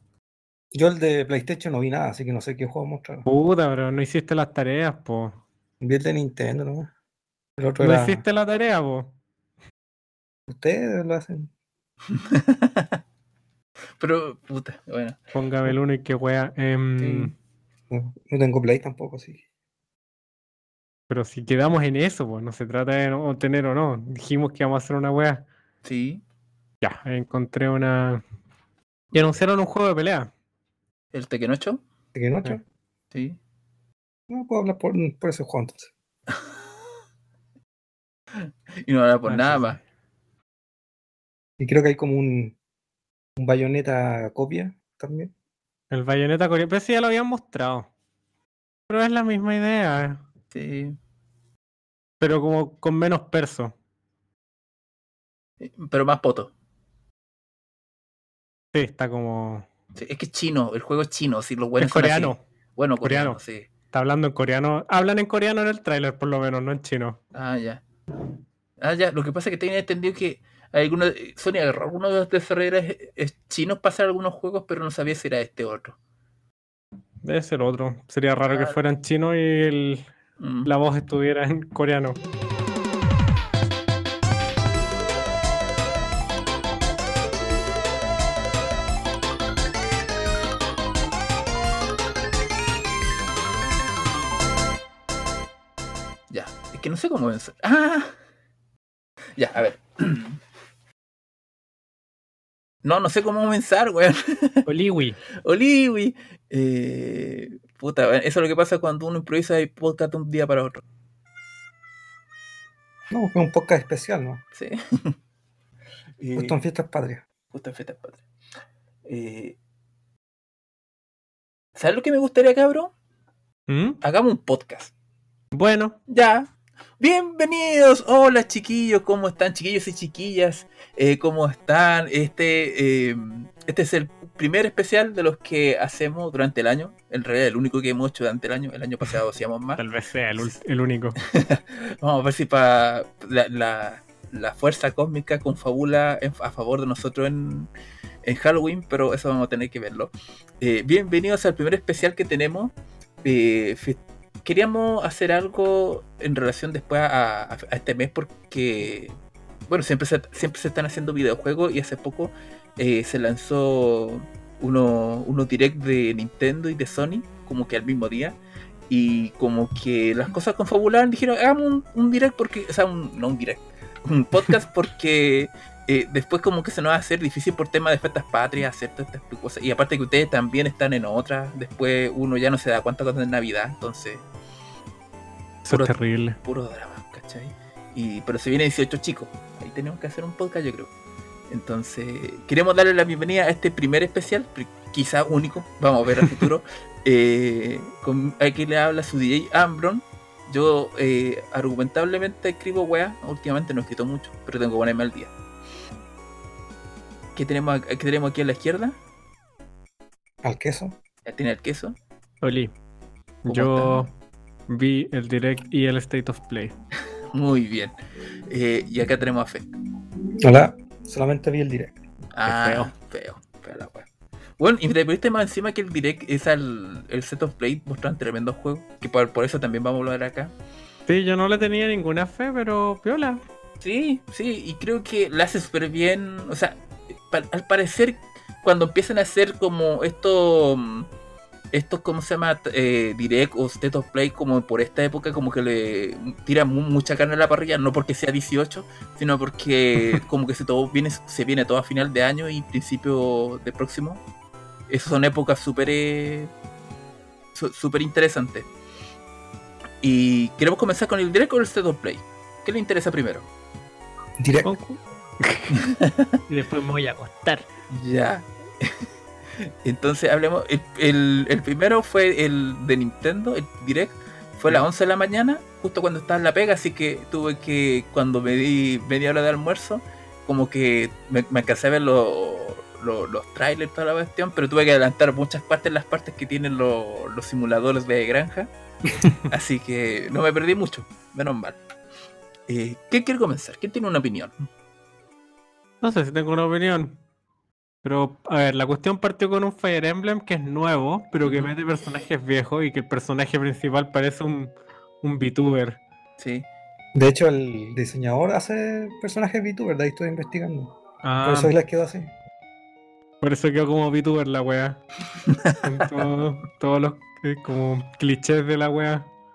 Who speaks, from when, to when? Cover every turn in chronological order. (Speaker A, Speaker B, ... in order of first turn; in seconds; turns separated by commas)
Speaker A: 0.7-3.2, Speaker B: 3.2-5.3, Speaker A: 5.8-6.9, Speaker A: 7.6-8.2, Speaker B: 7.8-9.1, Speaker A: 10.5-11.5, Speaker C: 12.1-13.0, Speaker C: 14.0-15.2, Speaker B: 15.3-17.3, Speaker C: 17.0-17.3, Speaker A: 17.9-19.4, Speaker B: 21.1-25.4, Speaker C: 25.8-26.2, Speaker B: 26.8-28.2, Speaker B: 29.1-30.3, Speaker C: 31.1-31.8, Speaker A: 32.1-32.6, Speaker C: 33.1-33.4, Speaker A: 34.3-35.9, Speaker C: 38.4-39.8, Speaker B: 39.3-39.8, Speaker A: 41.6-42.5, Speaker A: 43.4-45.3, Speaker B: 45.9-47.9, Speaker B: 48.9-50.2, Speaker C: 50.5-51.0, Speaker B: 52.2-53.7, Speaker C: 55.6-56.5, Speaker B: 58.7-59.6, Speaker C: 60.0-63.7, Speaker B: 61.8-62.4, Speaker B: 63.0-63.4, Speaker B: 63.9-67.2, Speaker C: 67.3-67.8, Speaker C: 68.8-76.0, Speaker B: 77.2-80.1, Speaker C: 78.5-78.8, Speaker C: 80.4-80.7, Speaker B: 80.6-82.2, Speaker C: 96.3-98.2, Speaker C: 99.3-100.4, Speaker C: 102.8-104.7, Speaker B: 104.7-105.2, Speaker C: 105.4-110.8, Speaker A: 113.1-114.4, Speaker C: 114.5-115.2, Speaker C: 116.2-116.5, Speaker A: 116.3-117.2, Speaker C: 117.5-118.2, Speaker C: 119.0-119.5, Speaker C: 121.7-122.9, Speaker B: 123.7-124.0, Speaker C: 124.0-124.9, Speaker B: 125.5-126.0, Speaker C: 126.1-139.8, Speaker B: 139.8-141.2, Speaker C: 141.2-147.7, Speaker C: 148.2-152.7, Speaker C: 153.2-159.1, Speaker C: 159.7-168.4, Speaker C: 168.9-184.2, Speaker B: 185.7-186.4, Speaker C: 186.4-190.9, Speaker C: 191.5-205.3, Speaker C: 207.3-209.0, Speaker A: 210.4-211.0, Speaker C: 211.2-211.9, Speaker B: 212.4-212.7, Speaker B: 213.4-214.1, Speaker C: 213.5-214.0, Speaker B: 214.7-216.7, Speaker C: 217.3-217.9, Speaker C: 218.5-219.7, Speaker A: 220.4-221.9, Speaker C: 222.3-224.1, Speaker B: 222.4-222.9, Speaker C: 224.6-230.5, Speaker B: 231.1-233.4, Speaker C: 233.8-236.8, Speaker C: 237.3-241.1, Speaker C: 241.7-254.2, Speaker C: 254.9-256.5, Speaker C: 257.5-258.7, Speaker C: 260.0-263.4, Speaker A: 264.4-264.7, Speaker B: 264.6-265.9, Speaker C: 265.7-266.4, Speaker B: 266.5-267.7, Speaker C: 267.9-269.0, Speaker C: 269.6-288.7, Speaker B: 289.2-289.4, Speaker C: 289.3-291.8, Speaker C: 292.7-294.5, Speaker B: 296.0-297.2, Speaker B: 298.0-306.0, Speaker C: 301.4-301.7, Speaker C: 306.4-306.6, Speaker A: 307.1-312.3, Speaker B: 311.2-311.7, Speaker B: 313.4-315.0, Speaker C: 315.4-316.3, Speaker B: 315.8-319.3